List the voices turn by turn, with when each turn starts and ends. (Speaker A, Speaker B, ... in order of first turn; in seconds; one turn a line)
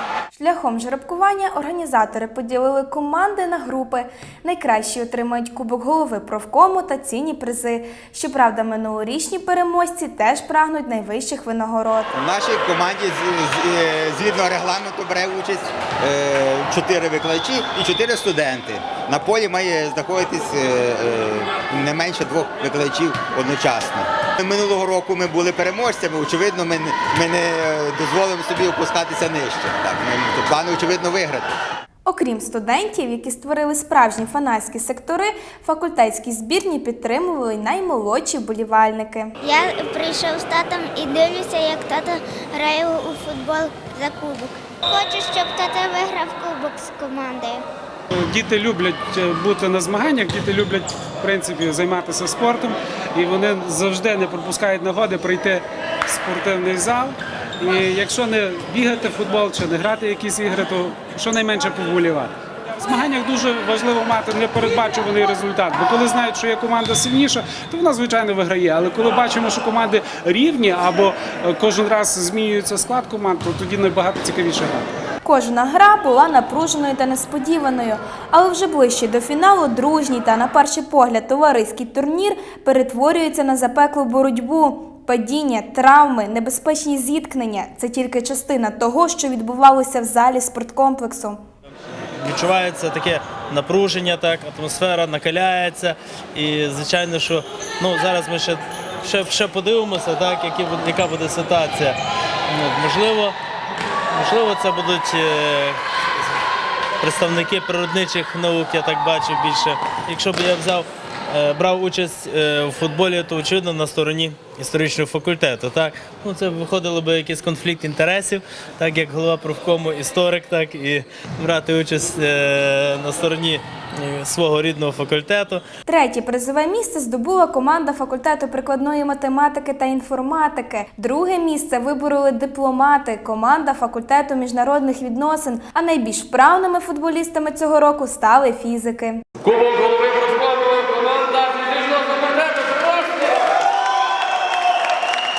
Speaker A: 0.3-12.1
Speaker B: 12.1-31.5
Speaker A: 32.1-39.4
Speaker C: 39.4-47.6
Speaker D: 48.1-74.9
Speaker A: 75.2-91.4
Speaker E: 92.2-102.0
Speaker E: 102.5-103.4
Speaker E: 104.1-105.8
Speaker E: 107.0-125.6
Speaker A: 125.9-139.2